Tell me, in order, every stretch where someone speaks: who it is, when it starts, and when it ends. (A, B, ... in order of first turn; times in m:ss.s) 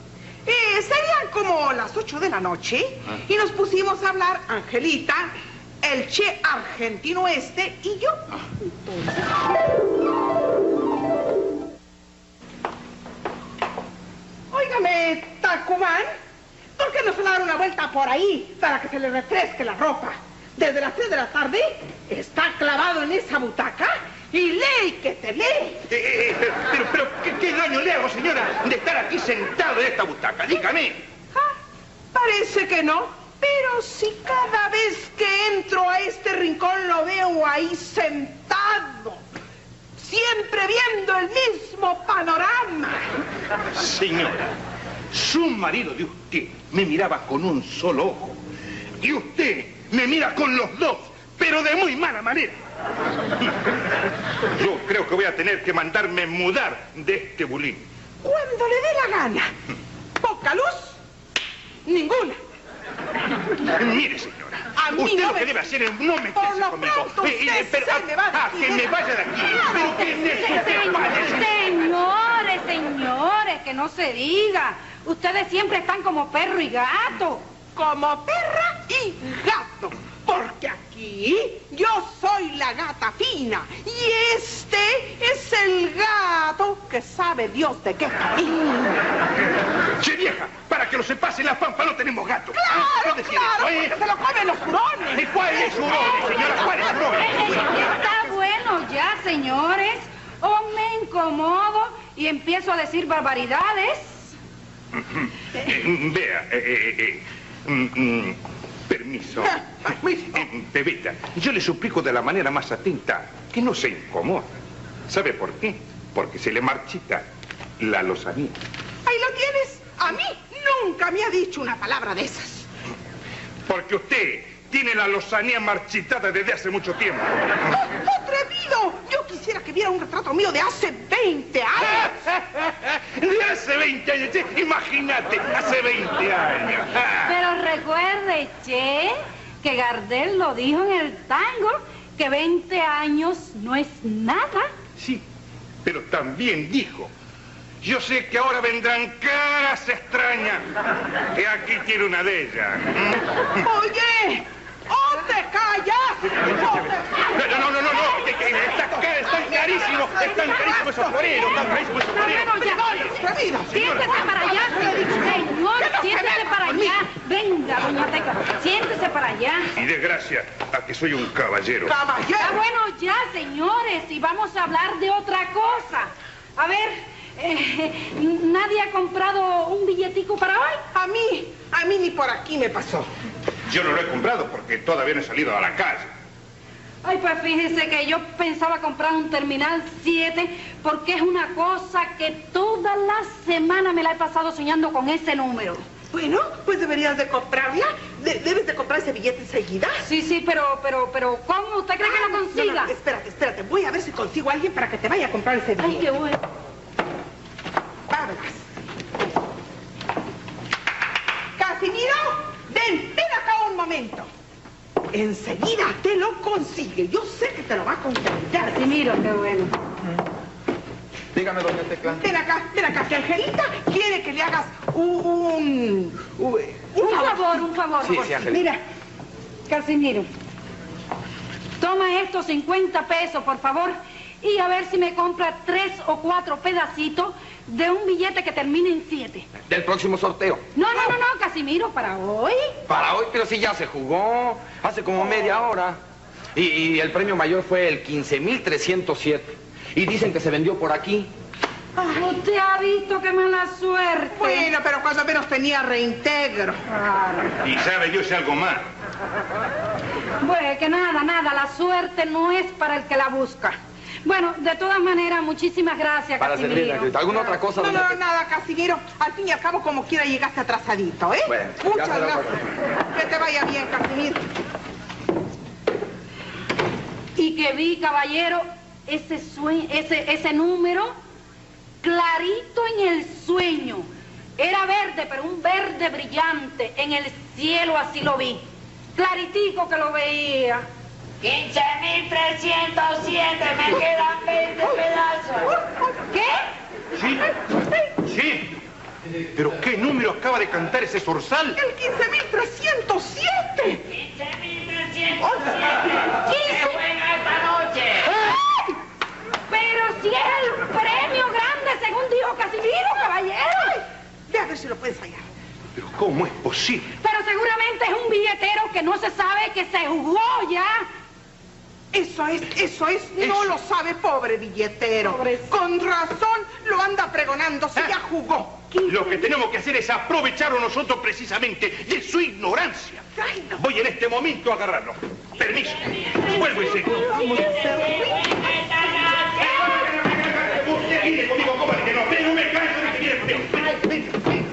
0:00.4-0:08.2 A
0:08.8-0:09.4 A
0:14.5-0:16.1 A
0:16.8-0:25.8 A
0:25.9-0:31.0 B
0:32.1-0:39.2 A
0:40.0-0:43.1 A
0:43.7-0:44.5 B
0:45.1-0:48.4 B
0:49.0-0:52.6 B
0:54.5-0:57.8 B
0:58.2-0:59.5 A
1:00.2-1:01.0 A
1:01.8-1:02.4 A
1:03.7-1:11.6 B
1:04.7-1:05.6 A
1:06.3-1:11.2 A
1:10.4-1:17.4 C
1:17.7-1:29.0 A
1:30.0-1:34.0 B
1:32.5-1:38.0 A
1:35.1-1:37.7 B
1:37.1-1:44.3 C
1:44.9-1:49.6 B
1:49.4-1:50.4 A
1:50.3-1:54.5 B
1:55.1-1:57.2 B
1:57.8-1:58.6 B
1:59.0-2:02.7 A
2:03.6-2:07.4 B
2:07.8-2:12.1 A
2:11.8-2:17.3 B
2:17.2-2:24.7 C
2:25.0-2:25.2 B
2:25.8-2:27.1 B
2:27.8-2:30.6 B
2:31.3-2:33.6 B
2:33.6-2:41.7 A
2:37.3-2:43.1 B
2:42.1-2:43.1 C
2:42.3-2:47.0 A
2:43.7-2:49.7 C
2:43.7-2:44.2 B
2:49.8-2:52.0 B
2:51.8-2:52.6 A
2:52.4-3:00.8 C
3:00.9-3:03.1 A
3:03.7-3:06.1 B
3:07.0-3:15.8 C
3:16.1-3:20.0 A
3:20.0-3:22.9 C
3:22.0-3:26.1 A
3:25.8-3:26.4 C
3:28.1-3:28.6 A
3:31.6-3:34.3 A
3:35.1-3:39.0 A
3:38.6-3:39.7 C
3:41.3-3:42.2 D
3:42.0-3:48.8 A
3:47.0-3:48.3 C
3:48.0-3:48.7 D
3:49.7-3:50.3 C
3:51.8-3:59.5 C
3:59.6-4:00.6 D
4:00.7-4:02.7 C
4:02.9-4:06.0 D
4:06.6-4:11.3 D
4:12.0-4:14.7 C
4:14.3-4:16.8 A
4:16.9-4:17.5 C
4:17.6-4:18.9 B
4:20.4-4:27.1 C
4:26.4-4:28.2 D
4:27.7-4:32.5 A
4:31.4-4:32.6 D
4:33.1-4:34.5 A
4:37.4-4:41.1 C
4:42.0-4:44.1 C
4:44.6-4:48.6 C
4:49.2-4:50.8 C
4:51.4-4:55.7 E
4:55.7-4:56.2 A
4:56.3-4:56.6 C
4:57.1-4:57.5 B
4:58.2-4:58.7 B
4:59.5-5:01.8 B
5:01.8-5:04.0 A
5:04.1-5:08.4 E
5:05.4-5:06.3 A
5:09.7-5:14.0 C
5:14.5-5:15.4 A
5:15.9-5:17.1 B
5:17.2-5:21.1 C
5:22.1-5:29.5 A
5:23.4-5:23.7 B
5:25.2-5:25.7 C
5:29.0-5:33.2 B
5:33.4-5:33.8 A
5:33.8-5:37.4 B
5:37.0-5:38.5 A
5:37.2-5:39.9 E
5:39.5-5:44.6 B